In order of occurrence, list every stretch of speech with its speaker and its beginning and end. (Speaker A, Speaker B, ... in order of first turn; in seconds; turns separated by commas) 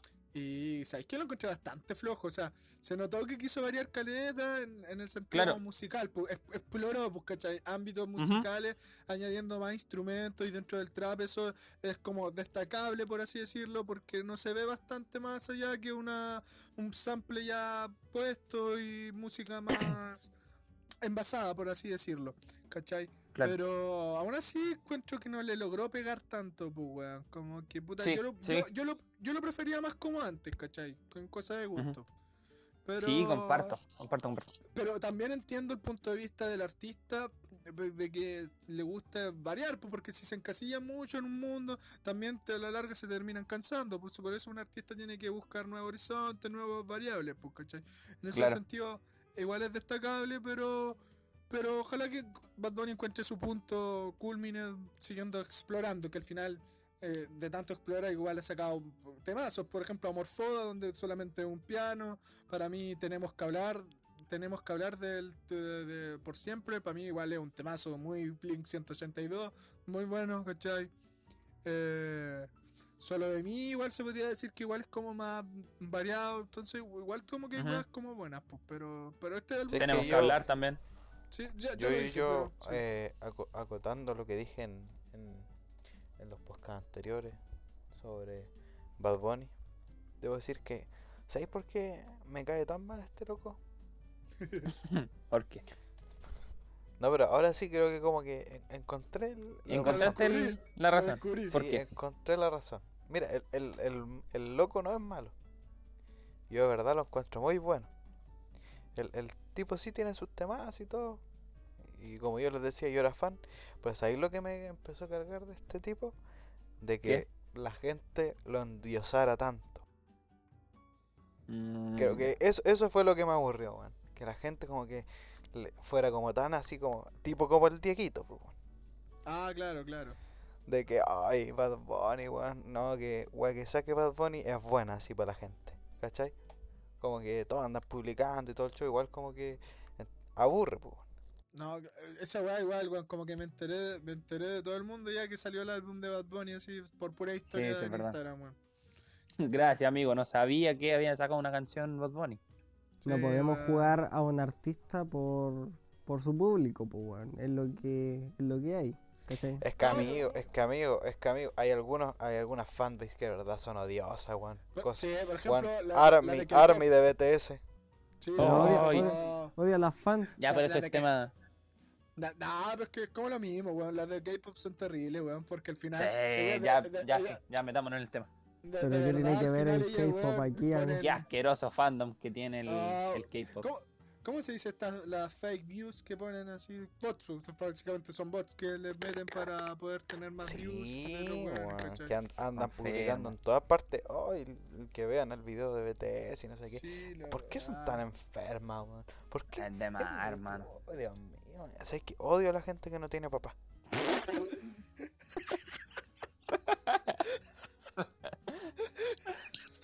Speaker A: 0.3-20.3, Speaker B: 5.3-5.6, Speaker B: 8.2-8.5, Speaker A: 21.0-32.1, Speaker B: 28.0-28.7, Speaker A: 32.9-33.8, Speaker B: 33.0-34.5, Speaker A: 34.7-70.9, Speaker B: 48.3-48.6, Speaker A: 71.6-80.2, Speaker B: 77.6-77.8, Speaker C: 79.7-80.4, Speaker B: 79.8-80.8, Speaker A: 81.3-82.8, Speaker C: 81.8-85.5, Speaker C: 86.2-87.4, Speaker C: 87.9-89.5, Speaker C: 90.2-93.6, Speaker A: 94.4-94.7, Speaker B: 94.7-95.6, Speaker C: 97.0-100.3, Speaker A: 99.7-101.6, Speaker B: 99.7-101.8, Speaker C: 101.5-105.3, Speaker C: 106.5-107.9, Speaker C: 109.0-111.2, Speaker C: 111.8-116.2, Speaker C: 116.8-119.8, Speaker B: 121.5-122.3, Speaker C: 122.0-128.5, Speaker A: 129.3-130.2, Speaker C: 130.7-136.3, Speaker C: 137.0-141.0, Speaker A: 141.5-148.6, Speaker B: 147.5-148.2, Speaker B: 149.4-152.4, Speaker A: 149.4-149.8, Speaker A: 153.0-154.0, Speaker D: 153.1-159.7, Speaker C: 159.6-167.6, Speaker A: 159.8-160.3, Speaker A: 164.8-166.9, Speaker A: 168.2-169.5, Speaker B: 168.4-169.2, Speaker D: 168.4-170.4, Speaker B: 170.4-171.3, Speaker A: 170.4-171.1, Speaker A: 172.2-177.4, Speaker B: 176.0-178.3, Speaker A: 178.6-181.2, Speaker D: 178.8-181.0, Speaker B: 181.0-183.7, Speaker A: 182.7-192.1, Speaker C: 190.4-203.6, Speaker B: 192.6-193.3, Speaker A: 196.7-198.0, Speaker B: 199.6-200.7, Speaker A: 204.2-204.8, Speaker A: 205.3-206.0, Speaker B: 206.9-207.2, Speaker B: 208.0-208.7, Speaker A: 208.9-209.2